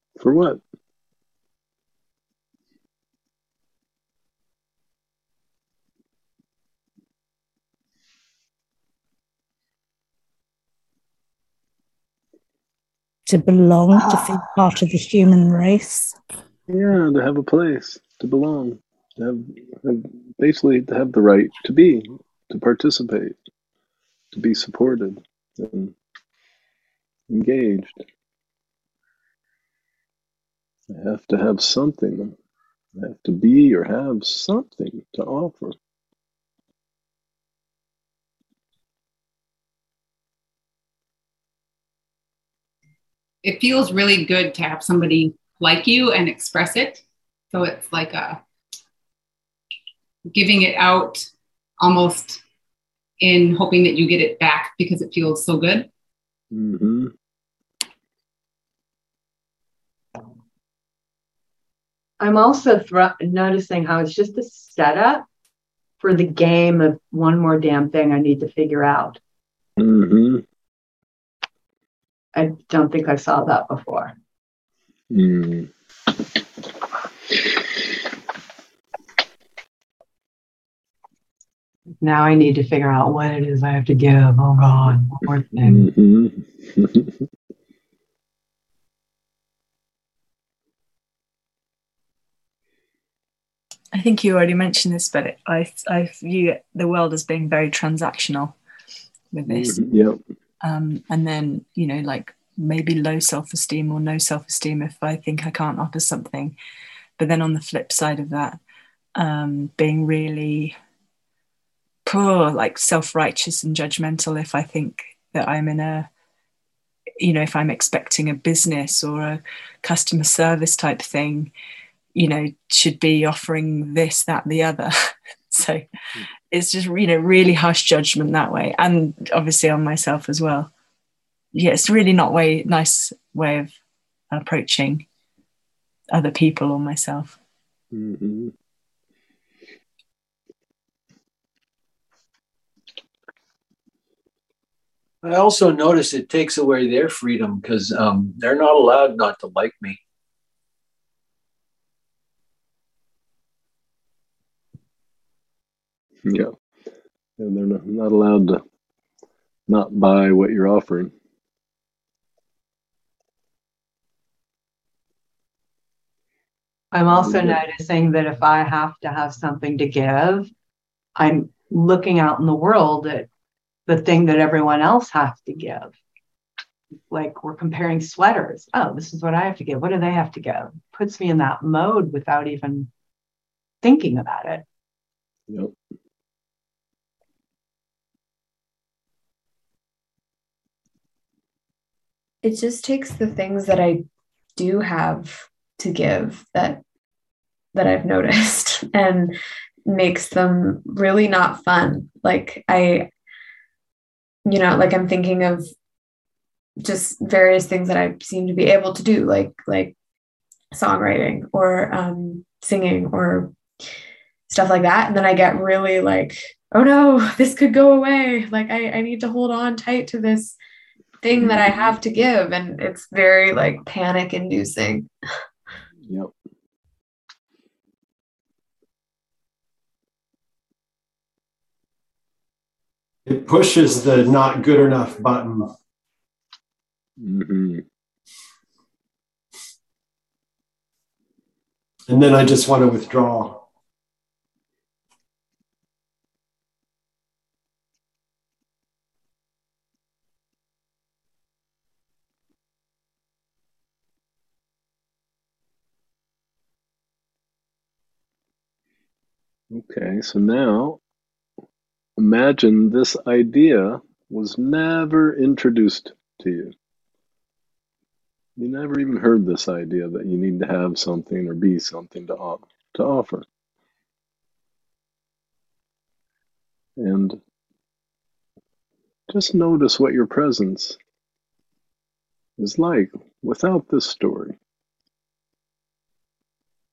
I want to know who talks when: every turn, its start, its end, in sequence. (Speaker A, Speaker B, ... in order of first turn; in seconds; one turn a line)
Speaker A: 0.2-0.6
Speaker B: 13.3-16.2
Speaker A: 16.7-23.4
Speaker A: 24.3-25.9
Speaker A: 27.3-28.0
Speaker A: 30.9-32.4
Speaker A: 33.0-35.8
Speaker C: 43.4-48.4
Speaker C: 50.3-52.4
Speaker C: 53.2-55.9
Speaker A: 56.5-57.1
Speaker D: 62.2-65.3
Speaker D: 66.0-69.2
Speaker A: 69.8-70.4
Speaker D: 72.3-74.1
Speaker A: 75.1-75.7
Speaker D: 82.0-85.9
Speaker A: 85.6-87.2
Speaker E: 93.9-98.5
Speaker E: 99.3-99.8
Speaker A: 99.5-100.2
Speaker E: 100.6-106.5
Speaker E: 107.2-108.6
Speaker E: 109.2-110.8
Speaker E: 112.1-116.1
Speaker E: 117.2-121.5
Speaker E: 122.2-125.9
Speaker E: 126.5-130.7
Speaker E: 131.5-133.7
Speaker E: 134.3-135.0
Speaker E: 136.1-137.4
Speaker A: 137.9-138.5
Speaker F: 145.2-150.0
Speaker A: 156.3-156.5
Speaker A: 157.4-158.6
Speaker A: 159.7-161.1
Speaker D: 166.9-170.5
Speaker A: 167.1-167.6
Speaker D: 171.2-173.3
Speaker D: 173.9-175.9
Speaker D: 177.1-182.9
Speaker D: 183.8-184.6
Speaker A: 185.5-185.7
Speaker G: 192.4-194.0
Speaker G: 194.6-196.8
Speaker G: 197.7-199.3
Speaker G: 199.9-203.1
Speaker G: 204.5-205.7
Speaker G: 206.8-209.9
Speaker G: 210.7-213.5
Speaker G: 214.5-220.6
Speaker G: 221.2-225.1
Speaker A: 221.3-222.0
Speaker A: 226.0-226.3
Speaker H: 233.3-235.7
Speaker A: 237.2-237.8
Speaker H: 242.1-243.6
Speaker A: 259.7-261.0
Speaker A: 262.2-266.7
Speaker A: 268.6-273.4
Speaker A: 277.0-277.4
Speaker A: 279.3-281.0
Speaker A: 282.6-284.6